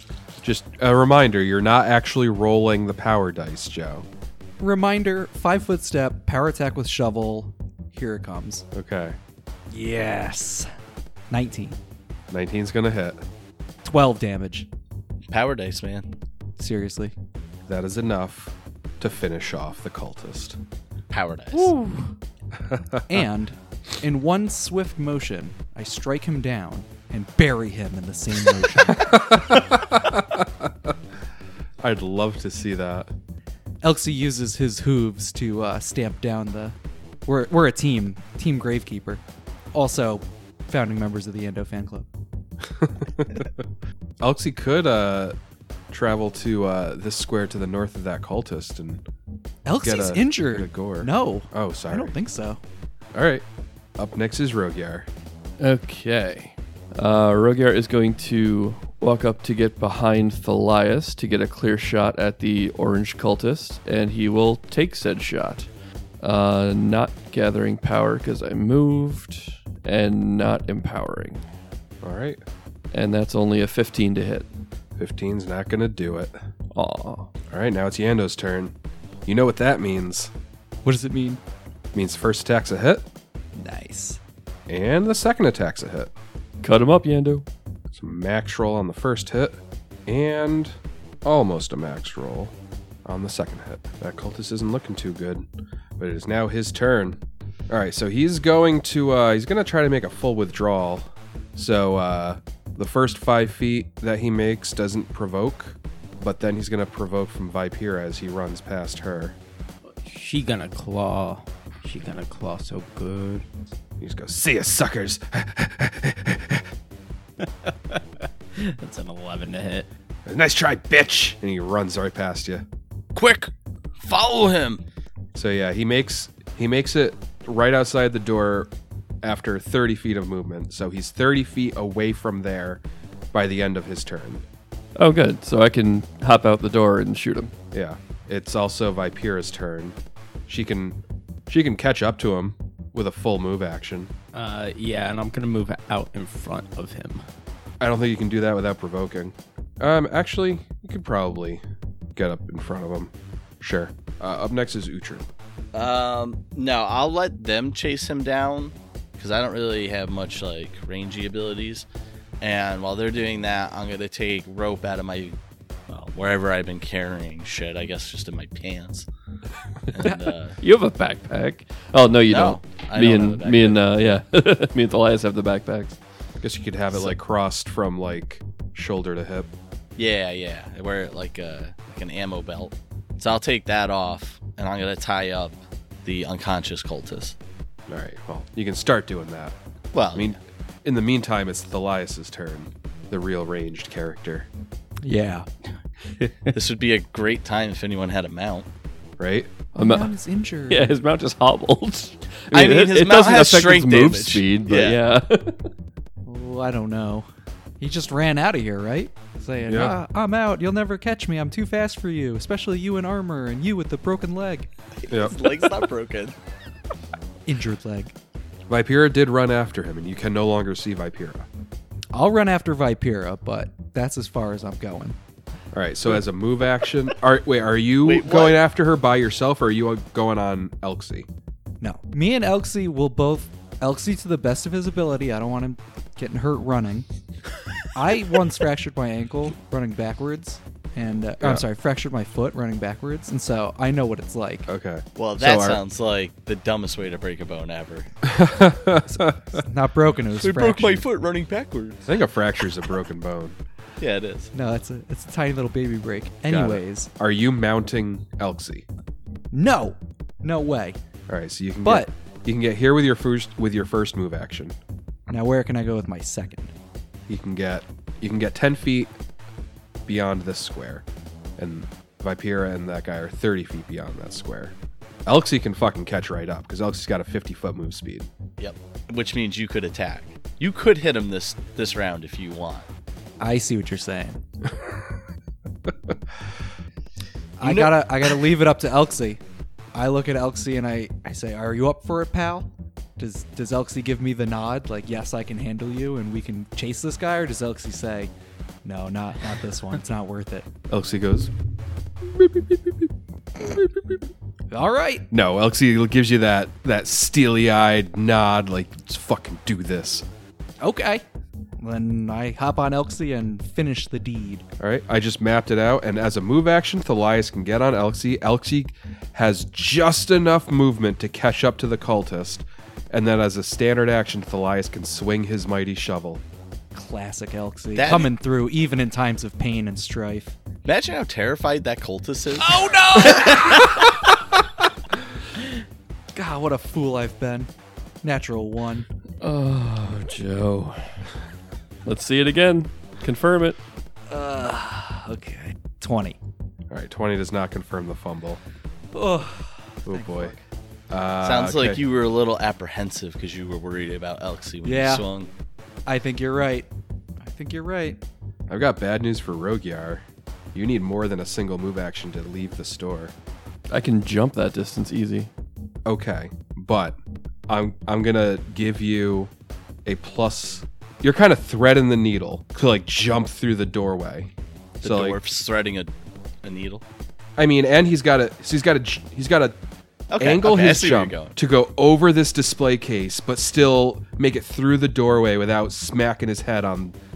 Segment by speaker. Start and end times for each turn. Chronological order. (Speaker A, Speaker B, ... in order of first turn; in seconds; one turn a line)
Speaker A: 0.4-4.0
Speaker B: 4.6-8.6
Speaker A: 8.7-9.2
Speaker B: 9.7-10.7
Speaker B: 11.3-11.8
Speaker A: 12.3-13.2
Speaker B: 13.8-14.7
Speaker C: 15.3-16.1
Speaker B: 16.6-17.1
Speaker A: 17.7-20.6
Speaker C: 21.1-21.7
Speaker B: 21.5-22.1
Speaker A: 22.7-23.2
Speaker B: 23.1-29.1
Speaker A: 28.9-30.9
Speaker A: 31.8-33.1
Speaker B: 33.8-42.1
Speaker A: 42.7-43.6
Speaker A: 44.2-45.4
Speaker A: 45.9-49.0
Speaker B: 49.6-52.6
Speaker A: 49.8-52.1
Speaker A: 53.1-53.4
Speaker A: 54.0-55.1
Speaker D: 55.6-71.4
Speaker A: 72.0-72.4
Speaker D: 72.9-74.5
Speaker A: 75.0-76.3
Speaker D: 76.7-77.3
Speaker A: 77.5-78.7
Speaker A: 79.2-80.3
Speaker B: 80.8-81.4
Speaker A: 81.9-83.1
Speaker B: 83.5-84.2
Speaker A: 84.7-86.1
Speaker D: 86.6-87.4
Speaker A: 87.9-95.4
Speaker A: 96.0-109.4
Speaker E: 110.0-113.5
Speaker A: 114.0-116.6
Speaker E: 117.4-119.9
Speaker A: 120.2-122.6
Speaker C: 123.1-124.8
Speaker A: 125.3-128.7
Speaker A: 129.2-132.8
Speaker A: 133.3-134.4
Speaker D: 135.0-137.5
Speaker A: 137.7-144.1
Speaker E: 144.3-147.2
Speaker A: 147.8-151.6
Speaker A: 152.2-155.3
Speaker C: 155.7-161.9
Speaker C: 162.4-165.4
Speaker C: 165.9-169.1
Speaker C: 169.9-170.6
Speaker D: 170.0-176.0
Speaker C: 172.3-173.8
Speaker A: 176.4-179.5
Speaker C: 180.0-187.3
Speaker A: 187.9-189.6
Speaker C: 189.9-190.4
Speaker A: 190.1-194.5
Speaker B: 195.0-195.5
Speaker C: 196.5-198.7
Speaker A: 199.2-199.5
Speaker B: 199.7-200.9
Speaker D: 199.8-200.1
Speaker D: 200.7-205.7
Speaker C: 202.5-205.0
Speaker B: 206.2-207.3
Speaker B: 207.8-214.7
Speaker A: 209.7-209.9
Speaker C: 215.1-216.3
Speaker A: 215.1-215.3
Speaker B: 217.4-218.1
Speaker A: 218.7-221.5
Speaker B: 222.1-225.2
Speaker A: 225.7-231.2
Speaker C: 228.0-228.6
Speaker B: 231.8-237.1
Speaker B: 237.9-244.7
Speaker A: 244.7-245.8
Speaker C: 245.2-248.1
Speaker A: 248.2-249.6
Speaker B: 249.1-251.0
Speaker C: 250.4-252.0
Speaker A: 252.0-253.6
Speaker C: 254.0-254.5
Speaker B: 254.5-257.1
Speaker A: 256.5-258.9
Speaker B: 259.5-261.0
Speaker A: 261.3-264.8
Speaker B: 261.8-262.1
Speaker B: 265.3-266.7
Speaker A: 267.3-269.1
Speaker A: 270.1-271.0
Speaker A: 271.6-278.3
Speaker C: 278.6-282.9
Speaker B: 283.4-284.4
Speaker B: 287.6-289.4
Speaker B: 289.9-298.3
Speaker B: 298.8-300.7
Speaker A: 300.9-301.5
Speaker A: 302.2-303.1
Speaker B: 304.7-305.3
Speaker A: 305.3-310.2
Speaker B: 310.8-311.2
Speaker B: 311.8-314.7
Speaker A: 314.8-326.4
Speaker B: 326.9-330.6
Speaker C: 327.9-328.3
Speaker C: 330.8-334.1
Speaker B: 332.6-334.3
Speaker B: 336.3-337.7
Speaker B: 338.2-339.1
Speaker D: 339.4-341.1
Speaker D: 342.0-343.8
Speaker B: 344.3-346.4
Speaker A: 346.9-348.6
Speaker B: 349.1-350.6
Speaker A: 350.1-350.6
Speaker A: 351.1-352.0
Speaker C: 351.4-355.5
Speaker B: 354.8-355.2
Speaker B: 356.1-356.9
Speaker B: 357.4-358.2
Speaker A: 358.7-363.3
Speaker D: 363.9-365.5
Speaker A: 366.1-369.5
Speaker A: 370.0-374.5
Speaker A: 375.0-375.4
Speaker C: 375.0-376.1
Speaker C: 376.6-377.0
Speaker A: 377.6-379.8
Speaker C: 380.3-381.5
Speaker A: 380.4-387.1